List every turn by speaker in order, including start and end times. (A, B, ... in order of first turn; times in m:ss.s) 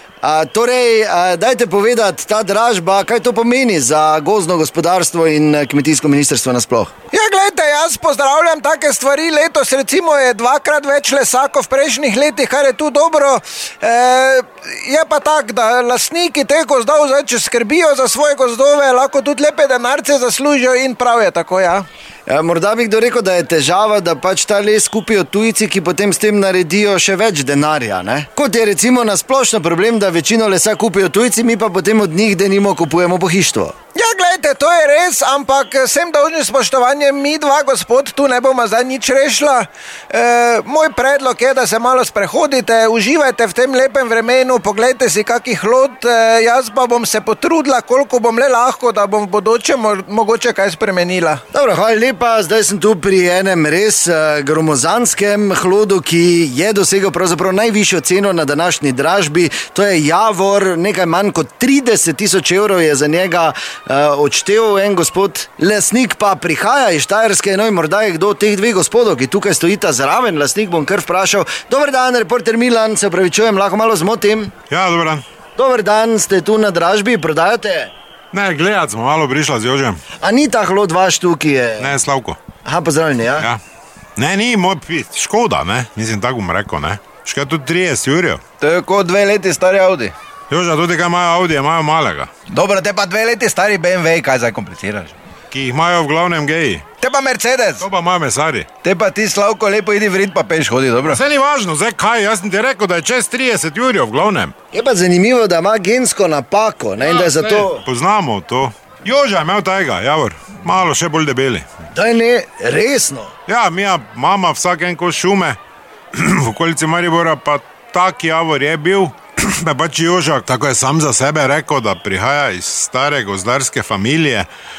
0:00.2-0:06.9 A
0:07.1-0:21.9 B
0:22.3-0:33.8 A
0:33.9-0:51.4 B
0:51.5-1:14.5 A
1:14.7-1:15.2 C
1:15.6-1:17.9 A
1:18.3-1:20.0 C
1:20.2-1:22.0 A
1:21.8-1:22.4 C
1:22.6-1:23.5 A
1:24.2-1:28.4 C
1:28.6-1:30.1 D
1:30.5-1:32.3 C
1:32.5-1:35.1 D
1:35.5-1:36.8 C
1:37.0-1:37.8 D
1:37.8-1:38.7 C
1:38.8-1:41.2 D
1:41.1-1:44.5 C
1:44.7-1:47.8 A
1:47.0-1:51.7 C
1:51.9-1:53.3 A
1:53.5-1:55.6 C
1:56.1-2:04.5 C